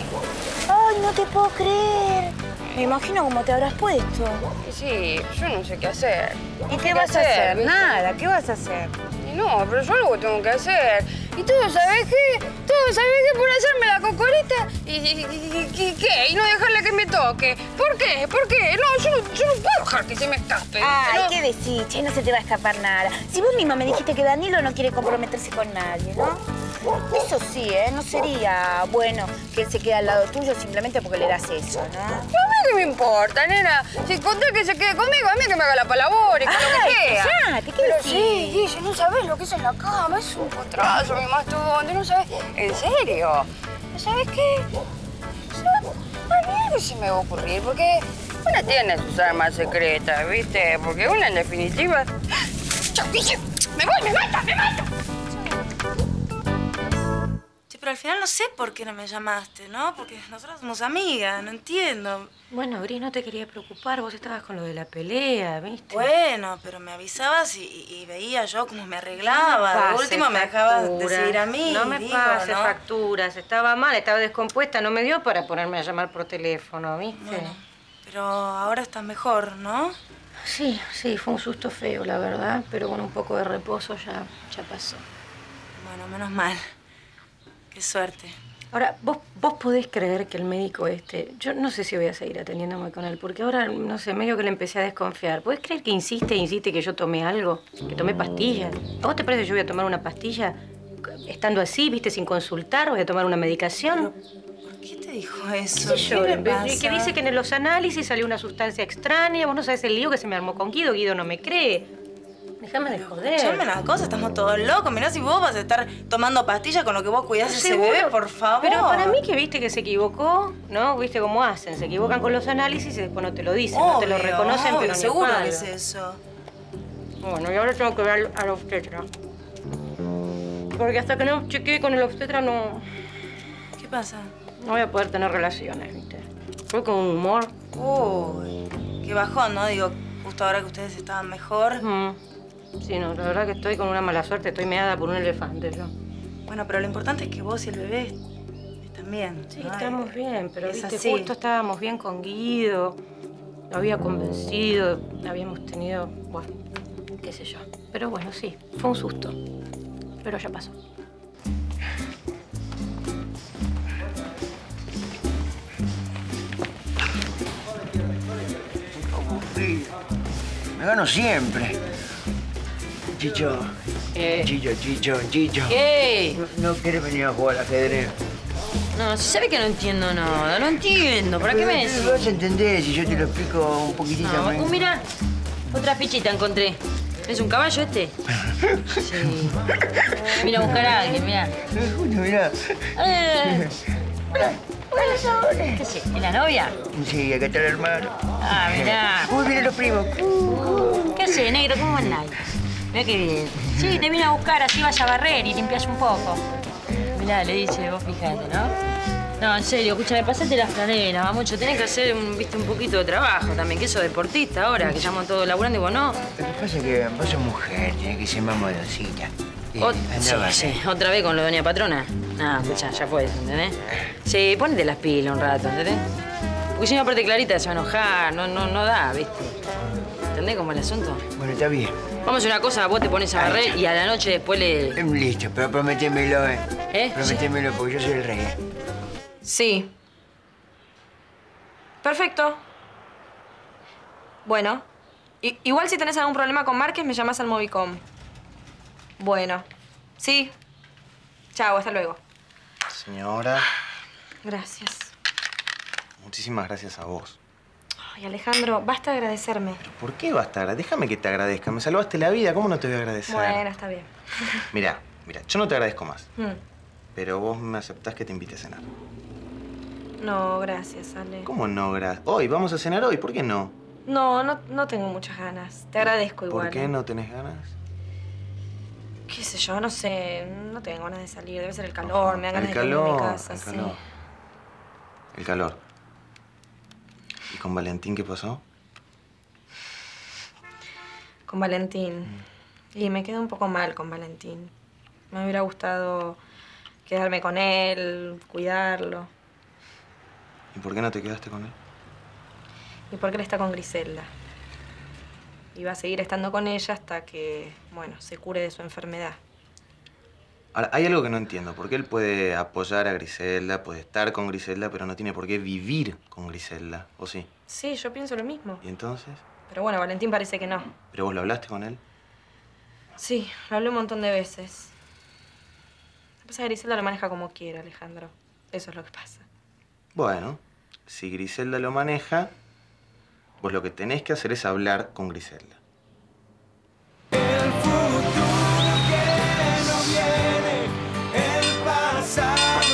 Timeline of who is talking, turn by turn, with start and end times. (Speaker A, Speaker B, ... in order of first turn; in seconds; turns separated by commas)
Speaker A: 0.7-4.4, Speaker B: 4.6-8.0, Speaker A: 6.7-8.9, Speaker B: 9.2-21.3, Speaker A: 20.8-26.4, Speaker A: 27.1-32.3, Speaker B: 32.3-44.7, Speaker A: 36.5-38.6, Speaker B: 45.5-52.1, Speaker B: 52.9-54.9, Speaker C: 57.7-62.3, Speaker D: 62.5-66.0, Speaker C: 65.9-72.8, Speaker D: 69.2-77.5, Speaker C: 77.2-80.0, Speaker D: 80.4-85.0, Speaker C: 85.8-86.6, Speaker C: 87.7-88.4, Speaker D: 88.7-104.1, Speaker C: 104.7-107.1, Speaker D: 105.8-111.9, Speaker D: 112.6-113.7, Speaker C: 112.9-119.2, Speaker D: 117.5-125.7, Speaker C: 123.7-126.2, Speaker D: 127.2-129.1, Speaker D: 130.8-132.8, Speaker C: 133.8-134.3, Speaker D: 134.6-137.5, Speaker C: 137.7-141.8, Speaker D: 141.8-142.2, Speaker D: 142.8-145.9, Speaker C: 146.5-148.2, Speaker C: 148.8-151.3, Speaker D: 149.5-153.0, Speaker D: 153.7-156.5, Speaker D: 157.2-159.3, Speaker D: 160.2-160.7, Speaker E: 169.0-169.9, Speaker E: 170.7-171.8, Speaker E: 173.1-173.7, Speaker F: 174.2-174.5, Speaker E: 174.2-175.8, Speaker F: 175.7-176.4, Speaker E: 176.3-178.1, Speaker F: 178.9-182.3, Speaker E: 181.3-184.8, Speaker F: 184.2-185.0, Speaker F: 185.7-188.1, Speaker E: 188.9-189.5, Speaker F: 189.0-189.5, Speaker E: 190.4-191.2, Speaker F: 190.4-191.5, Speaker E: 191.7-193.7, Speaker F: 193.0-193.7, Speaker E: 194.3-195.8, Speaker F: 194.9-196.8, Speaker E: 196.9-202.2, Speaker F: 198.4-199.3, Speaker F: 200.5-202.3, Speaker F: 202.9-206.4, Speaker E: 203.6-204.0, Speaker F: 207.1-208.7, Speaker F: 209.4-216.2, Speaker E: 214.8-215.1, Speaker E: 216.4-220.8, Speaker F: 219.8-226.0, Speaker F: 226.7-229.6, Speaker F: 230.3-231.2, Speaker E: 231.4-231.9, Speaker F: 232.2-235.0, Speaker E: 233.3-233.8, Speaker E: 234.9-238.6, Speaker F: 236.9-237.4, Speaker G: 239.4-239.9, Speaker G: 242.0-242.6, Speaker G: 244.4-244.8, Speaker G: 245.4-248.0, Speaker G: 249.2-249.7, Speaker G: 250.2-250.5, Speaker G: 251.5-252.2, Speaker H: 252.9-253.6, Speaker G: 254.4-255.1, Speaker H: 256.2-257.4, Speaker G: 258.0-259.8, Speaker H: 259.8-263.6, Speaker G: 263.3-264.6, Speaker H: 264.7-266.3, Speaker H: 267.1-268.8, Speaker G: 270.2-271.5, Speaker H: 271.4-273.7, Speaker G: 274.1-276.9, Speaker H: 276.4-277.7, Speaker G: 279.3-284.0, Speaker H: 282.0-284.0, Speaker H: 285.3-285.8, Speaker H: 287.5-288.6, Speaker G: 291.5-292.4, Speaker G: 292.9-294.7, Speaker G: 295.3-296.4, Speaker G: 297.1-299.3, Speaker H: 300.7-301.7, Speaker G: 303.1-304.3, Speaker G: 305.7-309.4, Speaker H: 310.7-317.5, Speaker G: 317.7-318.8, Speaker H: 318.8-319.4, Speaker G: 319.7-320.9, Speaker H: 321.1-322.0, Speaker G: 323.2-324.9, Speaker G: 326.4-329.4, Speaker H: 330.1-332.5, Speaker H: 333.6-335.8, Speaker H: 339.6-340.5, Speaker H: 341.5-342.7